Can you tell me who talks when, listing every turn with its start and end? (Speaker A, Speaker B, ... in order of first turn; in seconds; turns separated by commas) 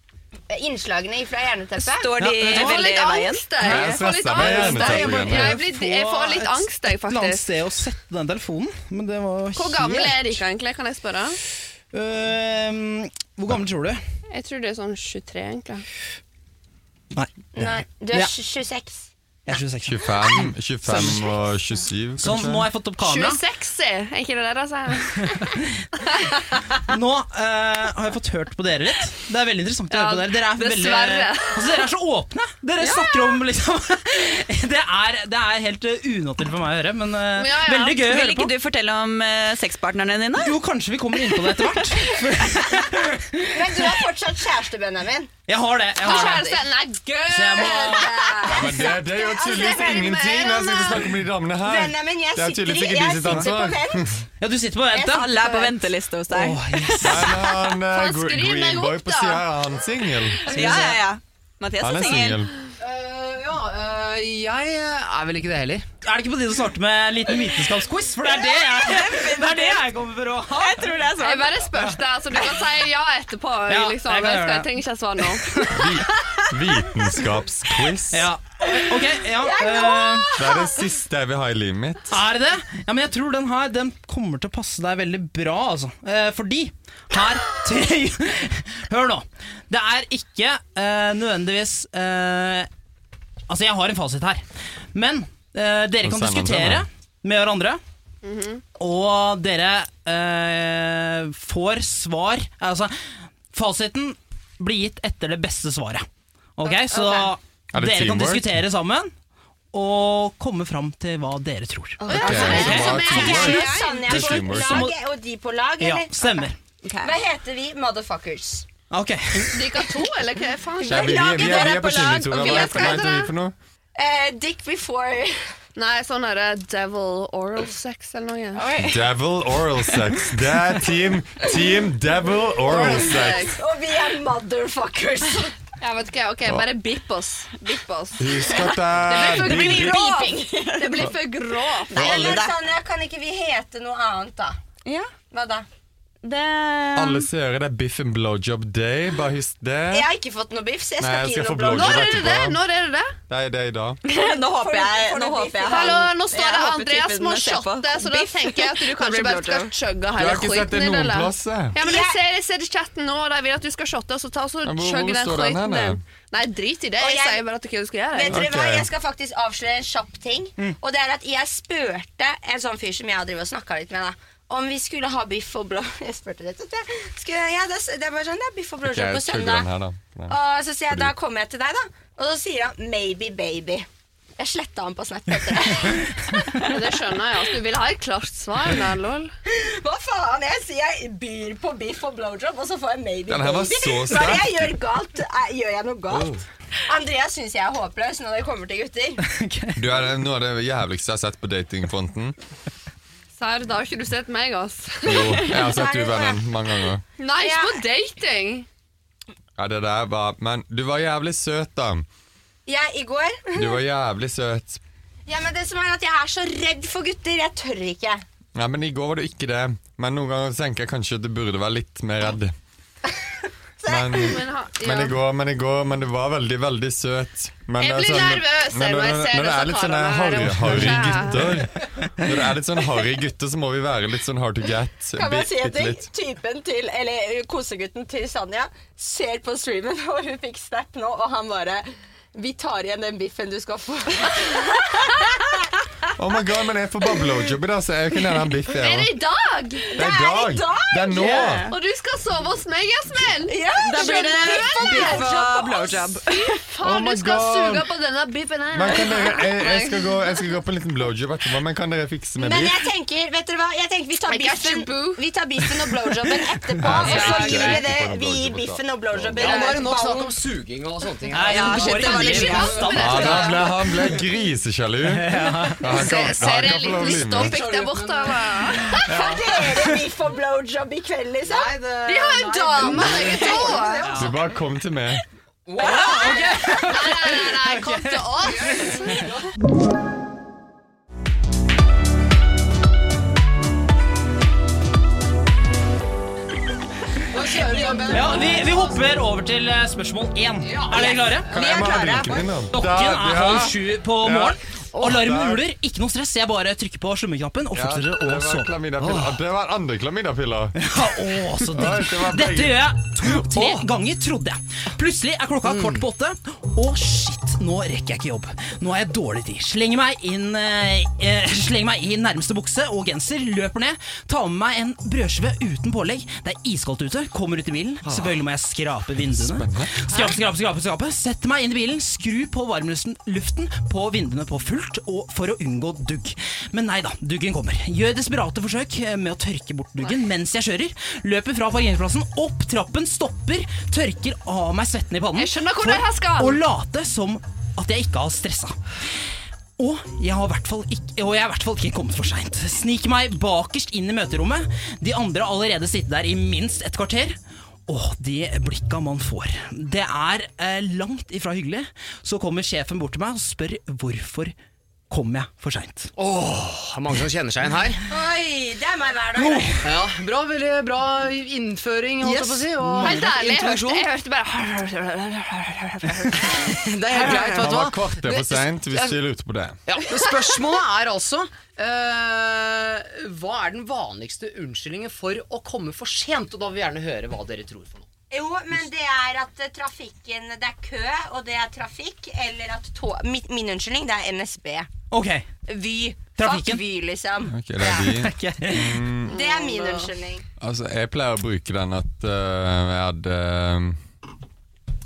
Speaker A: 0.5-2.1, Speaker B: 1.8-3.6, Speaker C: 2.2-2.8, Speaker D: 2.5-7.5, Speaker E: 3.6-5.6, Speaker C: 3.6-10.4, Speaker D: 9.6-11.4, Speaker C: 11.9-14.0, Speaker D: 14.3-15.8, Speaker A: 17.5-19.1, Speaker C: 19.5-21.3, Speaker E: 19.8-22.7, Speaker C: 22.2-23.4, Speaker D: 23.0-25.5, Speaker C: 26.9-38.5, Speaker D: 29.9-31.8, Speaker D: 32.8-33.4, Speaker D: 37.4-38.0, Speaker B: 38.0-40.6, Speaker C: 40.4-44.0, Speaker B: 41.4-41.8, Speaker A: 43.5-45.3, Speaker C: 45.5-46.6, Speaker D: 46.0-51.0, Speaker C: 47.3-48.1, Speaker A: 47.6-48.9, Speaker E: 48.5-54.2, Speaker A: 49.4-50.3, Speaker A: 51.6-54.1, Speaker C: 54.4-55.5, Speaker B: 55.0-57.3, Speaker C: 56.3-57.4, Speaker E: 57.0-60.7, Speaker D: 57.9-59.4, Speaker B: 60.5-62.5, Speaker C: 60.5-61.0, Speaker E: 61.8-62.5, Speaker F: 62.8-65.9, Speaker C: 66.0-71.0, Speaker B: 68.3-69.8, Speaker B: 70.5-71.6, Speaker D: 71.2-75.6, Speaker C: 73.7-74.7, Speaker C: 75.4-75.8, Speaker E: 75.7-78.3, Speaker C: 78.1-80.3, Speaker A: 79.4-80.8, Speaker E: 80.3-82.2, Speaker C: 82.1-92.7, Speaker C: 93.5-97.8, Speaker E: 96.0-96.9, Speaker D: 98.2-98.6, Speaker C: 98.8-102.9, Speaker C: 103.5-106.1, Speaker C: 106.6-109.1, Speaker E: 107.7-108.6, Speaker C: 109.7-113.4, Speaker A: 112.0-116.4, Speaker D: 112.1-114.1, Speaker E: 112.1-114.9, Speaker B: 113.3-113.6, Speaker C: 114.6-114.9, Speaker C: 115.8-116.6, Speaker B: 116.8-117.1, Speaker A: 117.0-118.7, Speaker C: 118.9-119.8, Speaker D: 119.5-123.3, Speaker A: 120.8-123.1, Speaker E: 120.8-123.5, Speaker A: 124.0-125.5, Speaker D: 125.8-128.6, Speaker A: 128.6-129.1, Speaker E: 128.8-133.5, Speaker D: 132.6-133.6, Speaker A: 132.7-135.5, Speaker D: 135.8-142.2, Speaker E: 138.2-140.0, Speaker A: 139.2-140.4, Speaker B: 139.4-141.1, Speaker B: 141.9-142.5, Speaker A: 141.9-144.6, Speaker E: 141.9-142.4, Speaker B: 144.8-145.1, Speaker A: 145.3-145.7, Speaker B: 146.2-147.3, Speaker E: 147.0-150.1, Speaker A: 149.9-152.2, Speaker E: 151.0-152.6, Speaker D: 151.7-153.1, Speaker E: 153.3-154.0, Speaker B: 154.1-159.7, Speaker A: 154.1-156.1, Speaker D: 155.7-168.4, Speaker E: 160.2-161.8, Speaker A: 161.8-162.2, Speaker E: 164.6-166.0, Speaker A: 167.0-167.4, Speaker A: 168.1-179.7, Speaker E: 168.3-168.9, Speaker E: 178.8-180.4, Speaker A: 180.3-183.9, Speaker A: 184.4-186.4, Speaker D: 186.6-189.3, Speaker A: 189.5-199.2, Speaker E: 193.3-194.7, Speaker E: 196.1-196.4, Speaker C: 199.2-199.9, Speaker E: 199.8-202.4, Speaker D: 203.4-205.5, Speaker E: 205.0-207.0, Speaker A: 205.5-206.4, Speaker D: 207.2-208.7, Speaker A: 207.4-207.8, Speaker E: 209.6-212.1, Speaker A: 212.7-213.8, Speaker E: 213.6-214.8, Speaker A: 215.3-218.2, Speaker E: 218.6-222.5, Speaker A: 223.8-224.3, Speaker E: 223.8-236.1, Speaker D: 224.1-225.2, Speaker D: 227.8-231.7, Speaker A: 235.2-245.6, Speaker E: 246.2-249.1, Speaker D: 248.8-249.9, Speaker A: 249.9-251.6, Speaker E: 250.0-251.7, Speaker B: 251.2-251.7, Speaker D: 251.7-260.4, Speaker A: 253.5-256.0, Speaker B: 253.8-256.5, Speaker E: 256.8-257.9, Speaker E: 258.7-262.9, Speaker A: 262.4-270.3, Speaker D: 264.3-265.2, Speaker E: 266.8-269.7, Speaker D: 267.0-267.9, Speaker F: 269.4-273.3, Speaker C: 271.3-273.7, Speaker A: 271.5-273.4, Speaker D: 271.8-273.7, Speaker E: 273.0-277.6, Speaker C: 275.0-275.9, Speaker D: 275.9-279.4, Speaker F: 277.1-279.0, Speaker A: 279.0-281.8, Speaker F: 281.4-284.5, Speaker D: 282.1-284.2, Speaker A: 282.9-284.0, Speaker E: 284.1-285.2, Speaker F: 285.7-287.1, Speaker C: 285.8-288.3, Speaker D: 285.8-289.3, Speaker A: 285.9-286.4, Speaker F: 288.6-289.4, Speaker F: 297.3-299.0, Speaker C: 298.1-309.1, Speaker F: 300.6-301.4, Speaker A: 301.0-302.2, Speaker E: 301.5-305.7, Speaker E: 307.7-310.8, Speaker C: 310.8-348.8, Speaker E: 311.7-312.9, Speaker F: 313.5-313.9, Speaker F: 315.6-316.1, Speaker E: 329.2-329.9, Speaker D: 345.4-346.6, Speaker C: 349.8-364.6, Speaker C: 365.1-366.1, Speaker F: 366.2-368.1, Speaker A: 368.1-369.9, Speaker C: 369.4-369.9, Speaker F: 369.8-374.1, Speaker A: 372.2-372.6, Speaker C: 373.0-373.3, Speaker D: 373.0-377.6, Speaker F: 376.6-379.2, Speaker E: 377.6-379.8, Speaker F: 379.9-388.1, Speaker A: 388.3-394.9, Speaker C: 395.1-395.5, Speaker A: 396.2-398.1, Speaker C: 396.3-396.8, Speaker E: 397.5-399.4, Speaker C: 398.0-399.0, Speaker D: 399.3-400.1, Speaker A: 399.3-400.4, Speaker E: 400.6-404.0